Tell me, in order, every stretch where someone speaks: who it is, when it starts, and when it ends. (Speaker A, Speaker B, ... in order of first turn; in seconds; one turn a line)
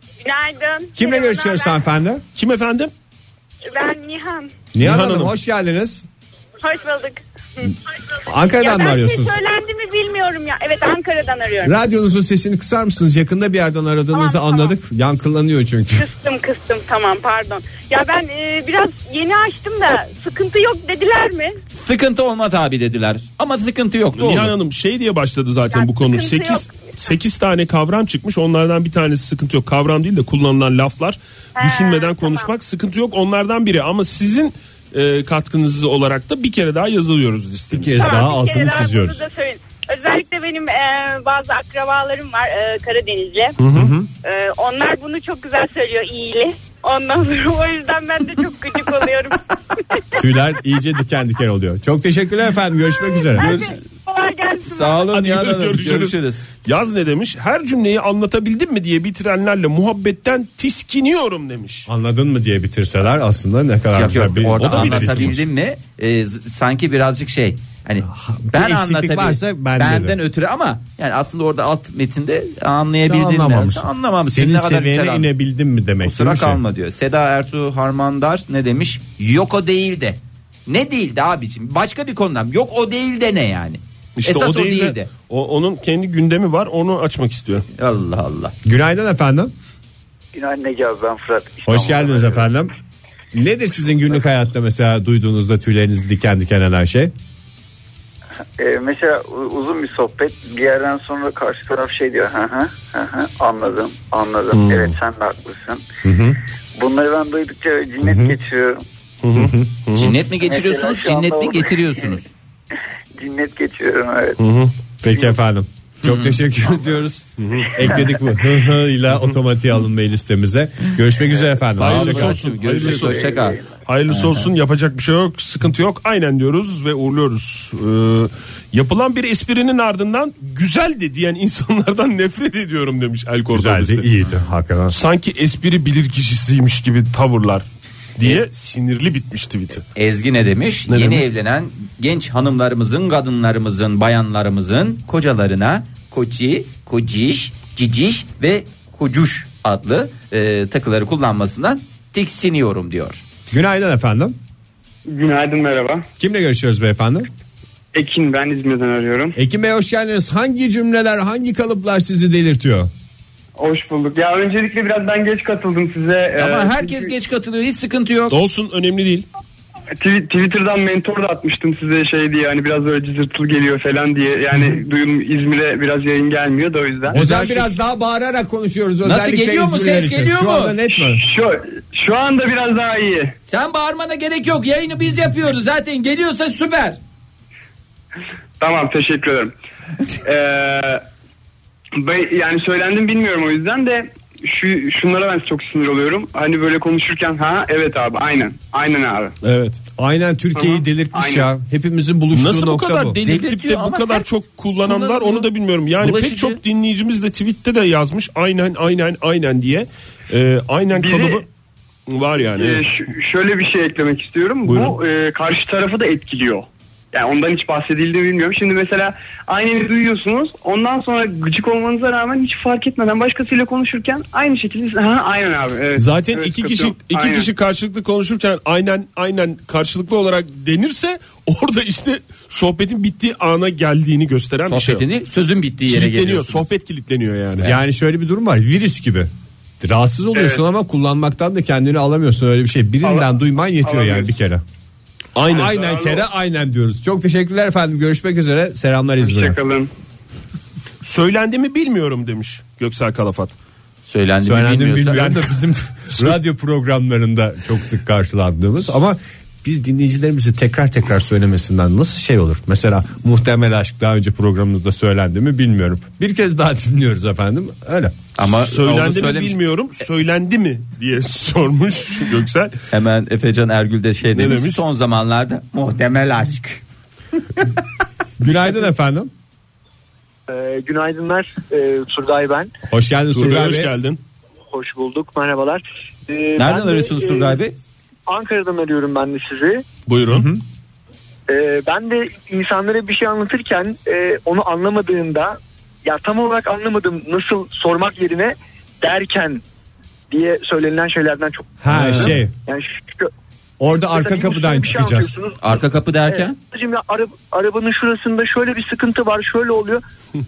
Speaker A: 0.2-1.8
Speaker B: 0.9-2.2
Speaker C: 2.3-2.9
Speaker A: 3.6-4.5
Speaker B: 4.7-6.0
Speaker C: 4.8-5.3
Speaker A: 6.6-7.7
Speaker B: 8.2-9.3
Speaker A: 8.6-11.7
Speaker B: 11.6-16.1
Speaker A: 14.1-14.7
Speaker A: 15.9-21.6
Speaker D: 21.8-24.5
Speaker C: 24.1-38.1
Speaker A: 25.7-26.9
Speaker A: 31.6-32.5
Speaker B: 37.7-39.2
Speaker A: 37.9-43.5
Speaker C: 43.6-43.9
Speaker B: 43.7-44.1
Speaker A: 44.2-49.4
Speaker B: 50.1-53.6
Speaker A: 53.0-55.1
Speaker C: 53.4-53.7
Speaker D: 54.6-56.5
Speaker C: 55.1-61.9
Speaker B: 61.9-65.4
Speaker D: 63.9-75.3
Speaker C: 64.6-65.3
Speaker B: 68.0-70.2
Speaker B: 73.0-76.6
Speaker D: 76.0-85.1
Speaker C: 84.2-87.7
Speaker D: 87.8-88.5
Speaker B: 88.6-89.5
Speaker E: 90.3-92.5
Speaker B: 91.7-92.7
Speaker B: 93.3-97.1
Speaker E: 98.6-105.8
Speaker C: 104.5-104.9
Speaker B: 106.0-106.4
Speaker E: 106.8-108.8
Speaker B: 108.0-108.3
Speaker C: 109.2-110.2
Speaker B: 109.3-109.7
Speaker D: 109.9-112.3
Speaker E: 110.3-112.2
Speaker E: 113.2-114.4
Speaker C: 114.4-114.7
Speaker B: 115.0-122.4
Speaker D: 116.0-116.4
Speaker C: 117.4-117.9
Speaker D: 121.3-124.5
Speaker C: 121.8-134.1
Speaker E: 122.8-123.7
Speaker B: 133.5-134.9
Speaker C: 134.9-137.6
Speaker C: 138.2-139.8
Speaker D: 139.9-153.2
Speaker C: 140.9-141.3
Speaker B: 153.5-154.4
Speaker F: 155.1-156.1
Speaker B: 156.2-157.3
Speaker F: 157.9-159.3
Speaker B: 159.3-162.9
Speaker F: 163.6-167.1
Speaker D: 166.3-168.3
Speaker C: 168.3-169.2
Speaker F: 170.0-177.2
Speaker B: 177.1-181.2
Speaker D: 177.1-177.7
Speaker D: 179.0-180.8
Speaker F: 180.9-183.3
Speaker D: 183.4-187.0
Speaker F: 188.6-189.5
Speaker F: 190.2-191.1
Speaker F: 191.9-199.3
Speaker C: 199.4-199.8
Speaker B: 200.0-203.2
Speaker F: 200.5-201.5
Speaker C: 202.3-211.5
Speaker D: 203.2-204.2
Speaker D: 204.8-206.6
Speaker F: 210.9-211.4
Speaker C: 212.1-212.8
Speaker F: 212.6-227.5
Speaker C: 214.7-215.0
Speaker C: 226.0-235.1
Speaker D: 234.7-236.7
Speaker C: 235.8-237.7
Speaker B: 237.6-239.3
Speaker B: 239.8-244.6
Speaker F: 240.3-240.6
Speaker F: 243.0-244.3
Speaker C: 245.3-245.9
Speaker B: 245.5-249.6
Speaker F: 245.6-246.1
Speaker F: 249.2-249.9
Speaker C: 251.0-253.5
Speaker D: 254.0-255.4
Speaker B: 254.4-268.2
Speaker D: 268.4-269.6
Speaker C: 268.4-272.8
Speaker D: 272.9-276.8
Speaker C: 274.3-274.8
Speaker B: 278.4-279.3
Speaker G: 280.5-282.7
Speaker B: 282.9-283.9
Speaker C: 283.3-284.2
Speaker G: 284.7-287.6
Speaker D: 286.6-287.7
Speaker G: 288.3-289.8
Speaker C: 290.1-290.5
Speaker D: 290.3-290.6
Speaker G: 291.5-299.6
Speaker G: 300.3-303.3
Speaker B: 301.8-302.5
Speaker C: 301.9-302.3
Speaker B: 303.8-305.3
Speaker G: 303.9-310.0
Speaker D: 305.6-306.6